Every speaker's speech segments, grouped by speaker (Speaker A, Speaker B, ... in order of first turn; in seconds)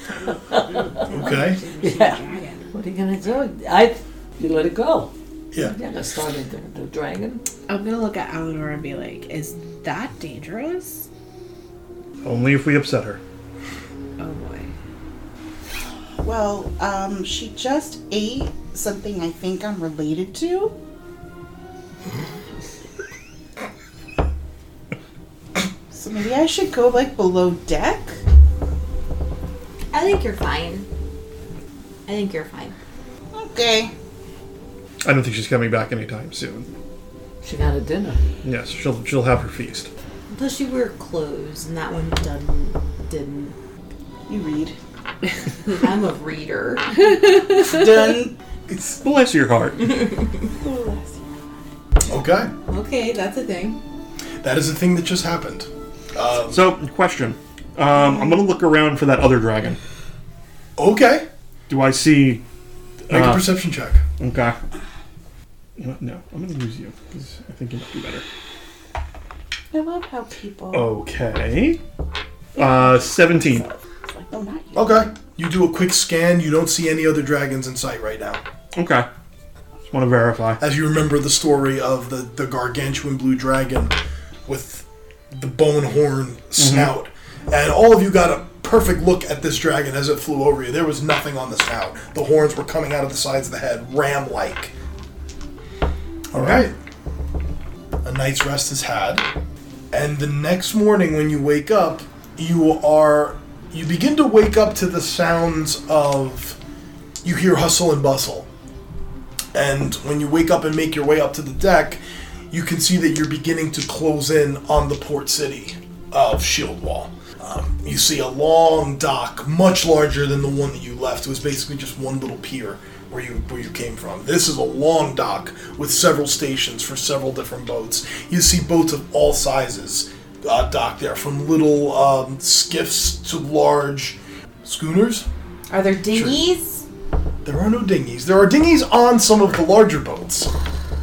Speaker A: 0.1-2.6, 7.7-11.1, 14.2-14.7
Speaker B: 0.5-1.0, 1.8-2.2, 2.7-7.4, 37.4-38.2
Speaker C: 1.1-1.6, 52.1-52.5, 54.4-56.6, 60.8-61.3, 63.1-64.0, 74.7-78.4, 80.6-84.0, 84.5-94.7, 96.3-96.8, 98.0-99.3, 99.9-106.6, 107.2-108.5, 109.5-135.2, 136.1-136.4, 137.4-140.5
Speaker D: 12.2-13.2, 35.0-36.7, 38.4-39.9, 48.8-50.0, 56.5-59.8, 61.7-62.4, 63.1-63.6, 64.2-64.6, 65.8-68.2, 70.7-71.8, 72.5-73.7, 78.7-79.1, 79.9-80.6, 86.6-86.9, 96.3-96.7
Speaker E: 16.2-20.7, 25.9-28.2, 33.3-33.9, 44.3-44.7, 47.4-48.4, 50.6-51.4, 69.7-70.9, 72.5-75.1
Speaker F: 29.9-30.9, 32.1-32.8, 40.3-43.5, 45.8-47.1, 49.8-50.5, 52.6-53.8, 135.7-136.8